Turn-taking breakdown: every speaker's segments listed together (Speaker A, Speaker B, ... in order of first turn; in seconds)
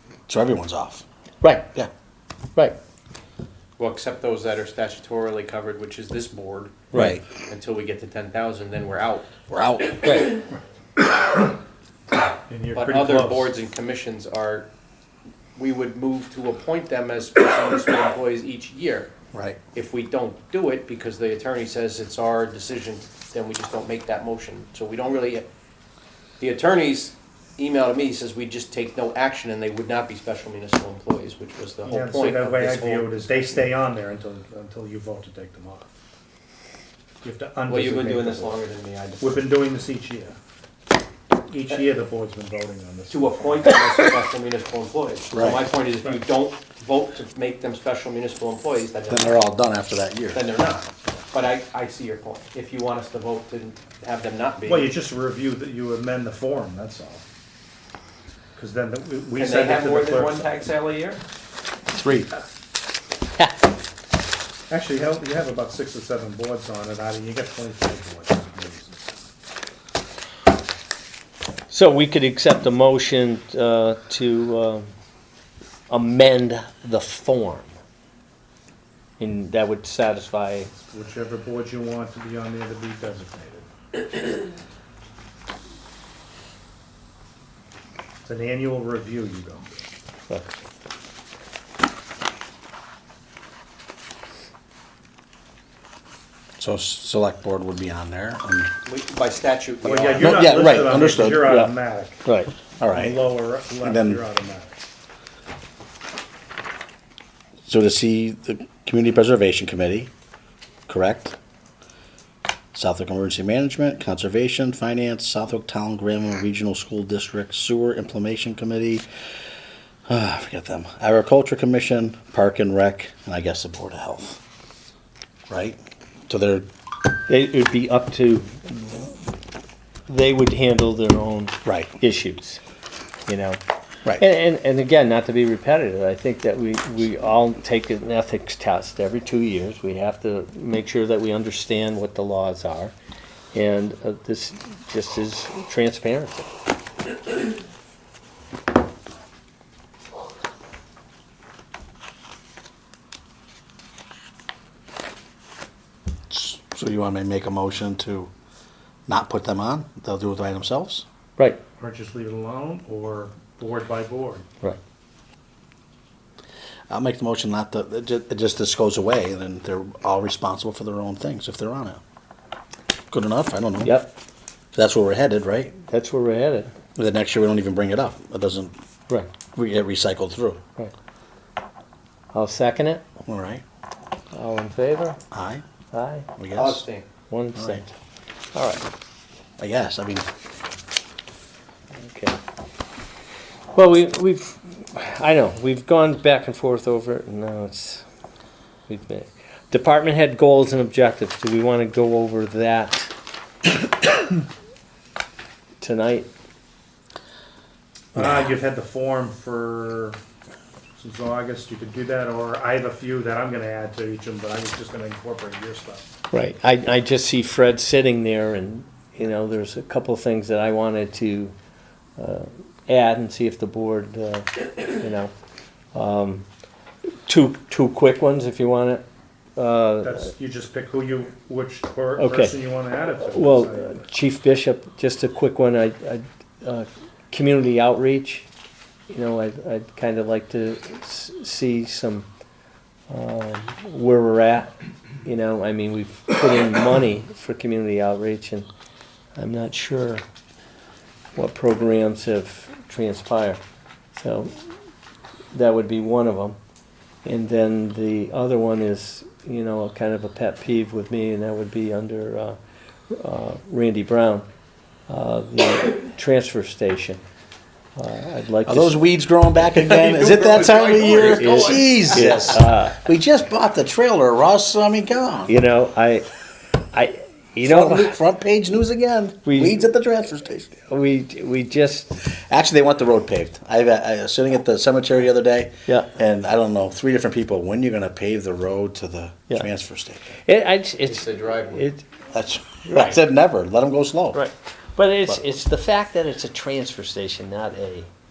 Speaker A: 0.3-1.0, 6.9-7.2, 9.5-10.3, 19.3-19.6, 45.3-45.6, 49.1-50.5, 61.9-62.3, 96.6-98.7, 100.2-101.5, 102.8-104.2, 107.7-110.1, 110.9-111.3, 112.7-119.1, 120.1-124.4, 125.5-126.7, 131.6-131.9, 156.3-158.3, 159.1-161.0, 166.9-172.0, 173.1-174.0, 174.7-175.7, 176.9-178.7, 179.5-180.6, 183.2-183.6, 185.3-185.6, 186.3-186.8, 187.5-187.8, 189.6-190.3, 268.6-275.6, 277.6-280.9, 282.3-290.4, 292.3-294.4
Speaker B: 1.4-1.7, 6.9-7.2, 10.0-10.3, 71.7-74.9, 75.9-77.7, 79.2-80.7, 101.4-101.7, 102.2-102.5, 127.3-129.2, 130.1-132.6, 133.3-133.6, 134.2-142.9, 143.5-146.5, 173.8-174.1, 175.8-176.7, 182.3-183.0, 184.3-185.2, 185.9-186.3, 187.3-187.9, 188.5-188.8, 191.9-192.4, 193.7-198.0, 198.9-203.1, 205.8-206.3, 216.3-221.5, 222.2-225.3, 225.9-226.4, 227.3-229.0, 229.6-230.3, 232.2-232.6, 233.3-238.5, 239.1-242.3, 243.1-244.7, 245.2-248.7, 249.3-250.2, 251.3-253.6, 254.1-254.6, 255.5-256.6, 257.2-262.6, 263.1-264.5, 265.1-267.2, 268.0-269.0, 271.3-273.1, 275.5-276.3, 276.9-278.2, 279.4-279.8, 280.9-282.2, 290.4-292.1, 292.9-293.2, 294.3-298.1
Speaker C: 3.8-9.3, 12.7-14.7, 15.6-19.1, 19.7-25.4, 26.4-33.6, 37.7-39.5, 43.1-49.4, 50.3-54.9, 59.4-61.2, 98.8-100.5, 186.5-187.1, 269.7-272.4, 291.1-291.9
Speaker D: 12.5-13.5, 31.8-35.9, 37.2-38.6, 39.2-40.4, 41.4-43.8, 54.6-57.2, 58.5-60.5, 64.7-69.1, 80.7-83.7, 88.2-89.8, 99.8-102.2, 102.8-104.8, 161.8-164.4, 208.1-210.2, 211.0-216.0, 230.0-234.0